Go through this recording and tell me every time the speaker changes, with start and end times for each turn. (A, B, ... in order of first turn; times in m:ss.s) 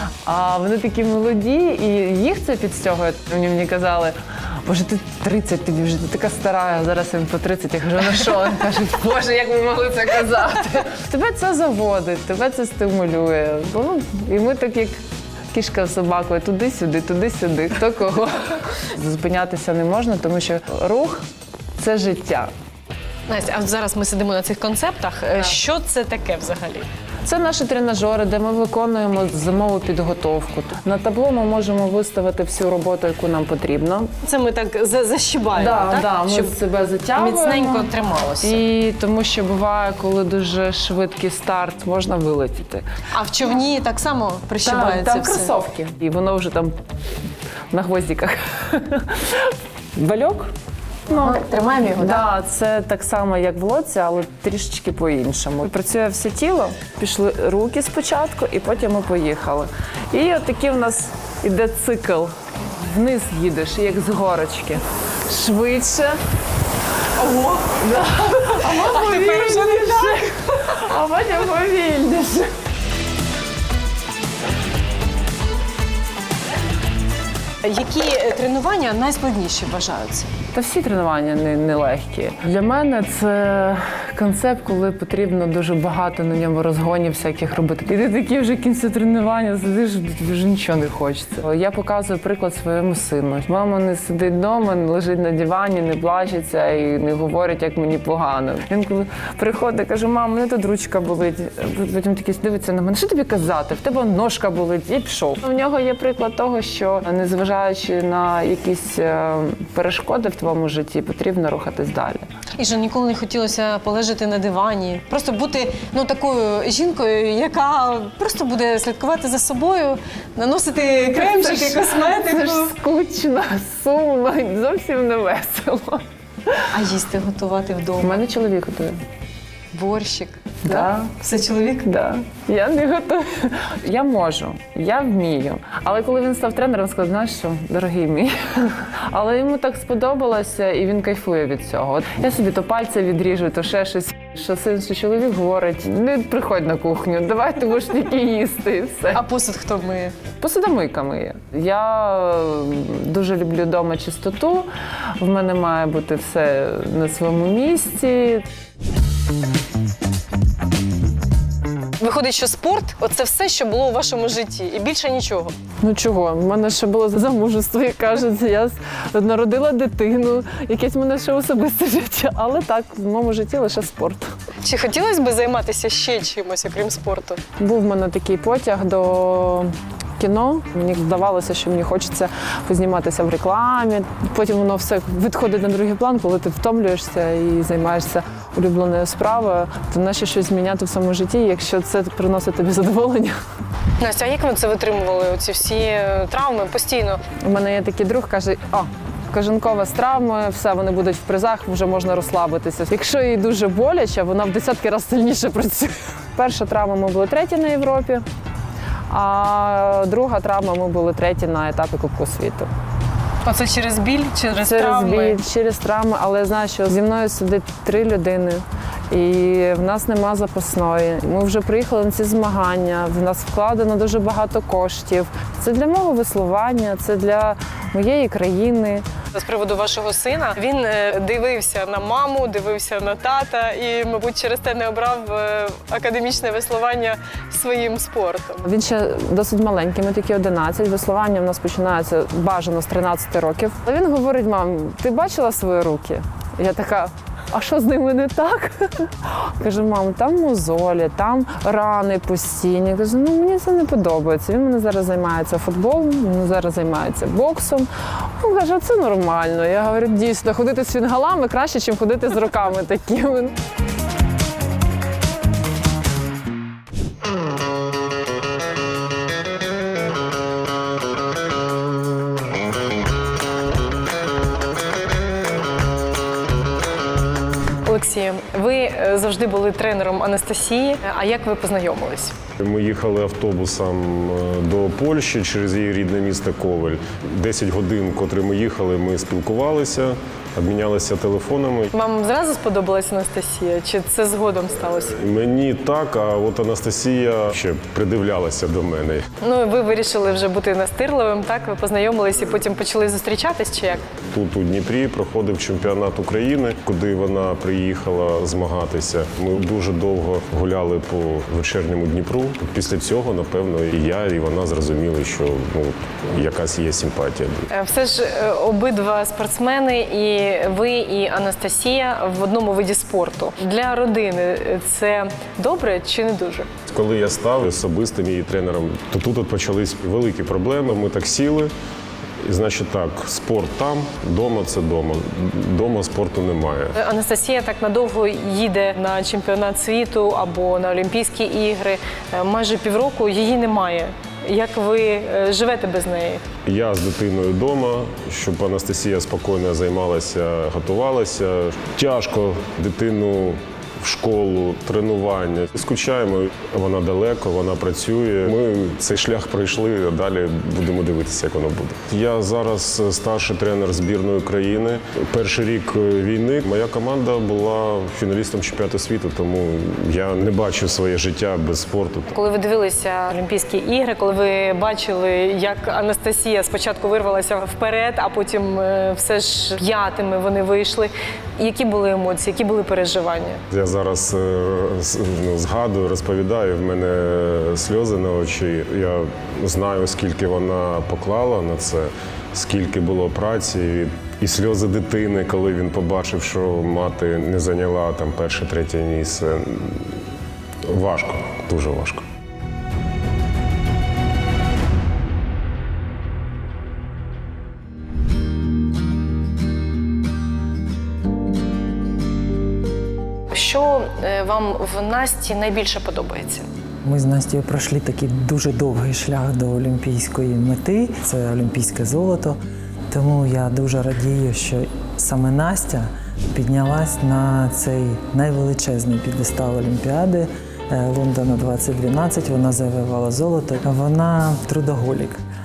0:00.2-0:15.0 A
0:15.5-0:21.2 A
0:21.8-0:22.5 A
0:23.3-0:26.9 B
0:27.2-0:34.1 A
0:34.2-0:36.5 B
0:35.5-0:37.9 A
0:37.1-0:38.6 B
0:38.4-0:42.8 A
0:43.1-0:45.5 B
0:44.6-0:46.8 A
0:47.7-0:50.5 A
0:51.1-0:51.4 A
0:51.1-0:52.2 B
0:51.9-1:06.2 A
1:07.5-1:12.5 A
1:08.1-1:10.3 B
1:17.6-1:20.3 B
1:20.5-1:52.2 A
1:52.6-2:02.7 B
2:01.1-2:06.0 A
2:06.7-2:08.2 B
2:08.0-2:09.0 A
2:09.7-2:11.9 B
2:10.6-2:11.1 A
2:11.8-2:29.2 A
2:29.1-2:30.2 B
2:30.4-2:34.7 A
2:35.2-2:38.4 A
2:42.0-2:45.5 B
2:45.8-2:54.3 A
2:54.6-2:57.4 B
2:57.6-3:13.4 A
3:14.0-3:17.2 B
3:17.4-3:28.2 A
3:29.1-3:32.7 A
3:33.4-3:35.4 B
3:34.6-3:49.0 A
3:49.3-3:58.6 B
3:58.6-4:23.5 A
4:37.8-4:42.3 B
4:42.6-4:51.9 C
4:51.9-4:55.1 B
4:55.2-4:59.2 C
4:59.4-5:04.0 B
5:04.3-5:17.7 C
5:17.7-5:26.7 B
5:26.9-5:31.7 C
5:32.4-5:36.9 C
5:37.0-5:46.4 B
5:46.6-6:12.3 C
6:12.3-6:23.6 B
6:23.7-6:40.1 C
6:40.9-6:42.2 C
6:53.5-6:56.7 B
6:57.0-7:02.6 D
7:03.1-7:15.4 D